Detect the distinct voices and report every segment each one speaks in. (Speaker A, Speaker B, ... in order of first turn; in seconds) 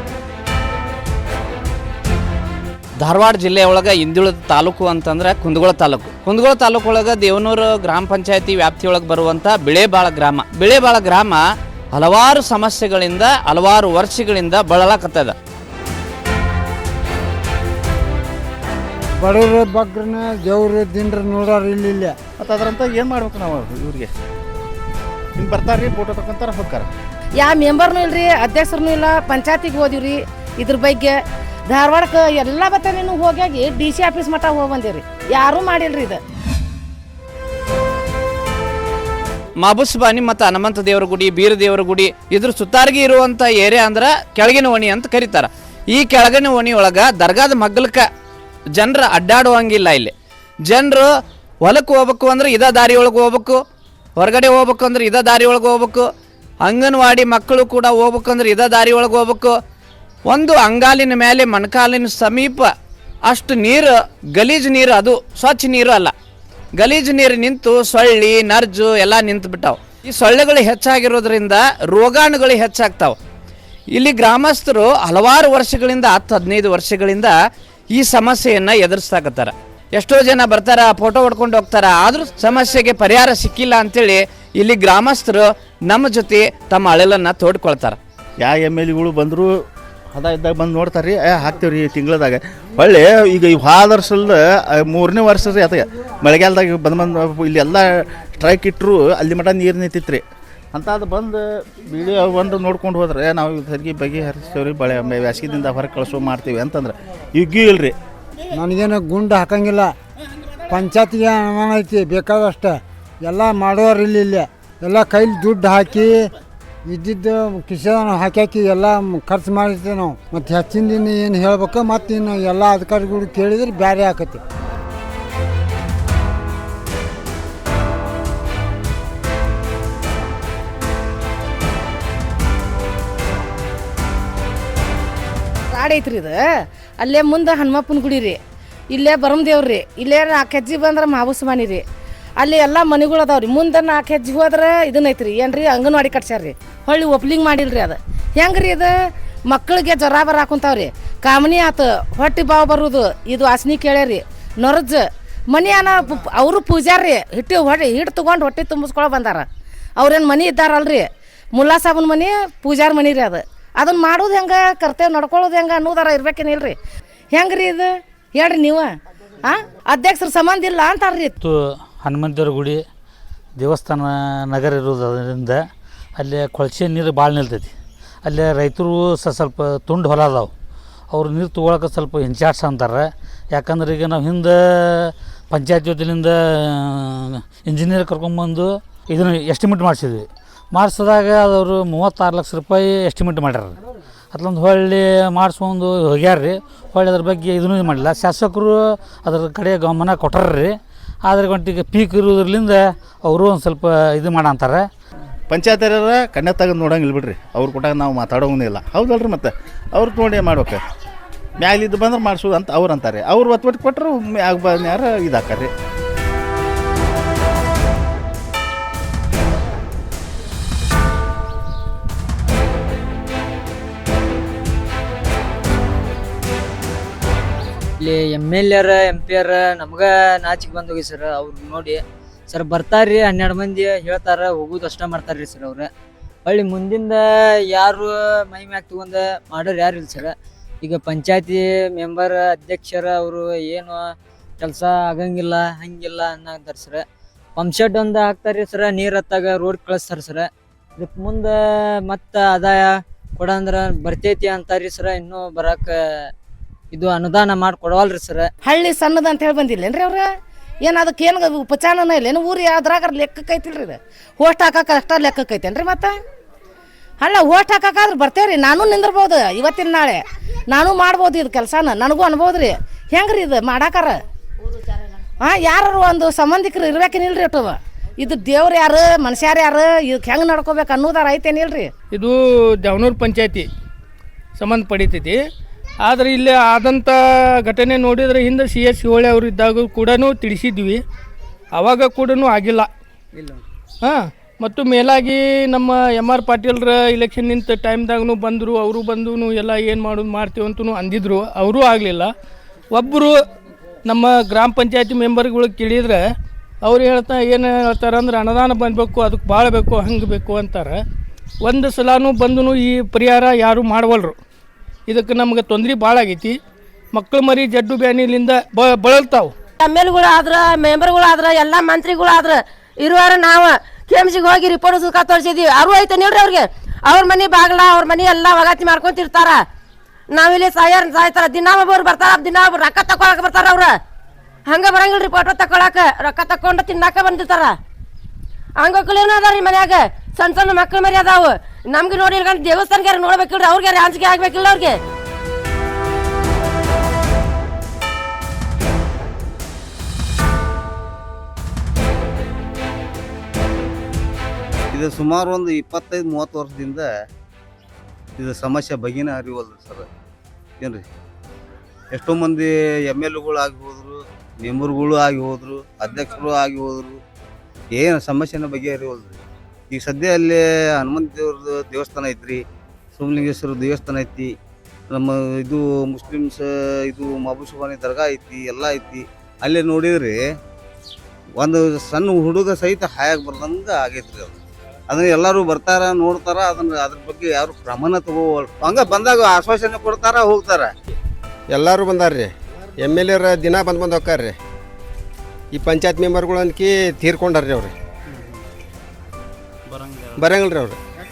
Speaker A: 3.0-11.4, 11.9-15.3, 39.6-48.1, 48.8-50.1, 50.7-51.1, 51.6-53.6, 54.2-56.1, 56.6-59.5, 60.3-62.7, 63.3-66.1, 66.8-73.2, 73.9-77.3, 78.0-88.0
Speaker B: 19.2-22.1, 108.5-109.9, 110.7-116.3, 116.9-124.4
Speaker C: 22.4-24.1, 25.4-26.9, 88.4-89.5, 90.2-108.0, 205.5-210.8, 211.6-215.7
Speaker D: 27.4-31.2, 31.7-36.2, 135.7-136.4, 137.0-138.4, 138.9-141.8, 142.4-148.9, 149.5-159.5, 160.0-166.8, 167.3-168.9, 169.4-171.4, 258.6-260.3, 260.8-266.1, 267.2-274.2, 275.4-281.9
Speaker E: 171.4-172.8, 173.6-175.6, 176.2-177.7, 178.2-180.5, 181.1-193.8, 194.3-204.9
Speaker F: 228.0-235.9, 236.5-244.0, 244.6-247.0, 247.6-256.0, 256.9-258.5
Speaker G: 282.1-283.7, 284.6-285.4, 286.1-291.0, 291.8-292.9, 294.0-302.3, 302.9-303.4, 304.1-306.2, 306.8-311.0, 311.6-314.4, 315.1-316.6, 317.1-319.5
Speaker H: 319.8-329.6, 330.3-333.9, 334.7-337.7, 338.8-345.0
Speaker I: 354.9-357.1, 358.4-360.1, 362.1-367.2, 367.9-369.4, 369.9-372.6, 373.2-374.5, 375.1-380.4, 381.6-384.6, 385.1-390.9
Speaker J: 391.7-394.6, 395.7-397.9, 400.4-401.0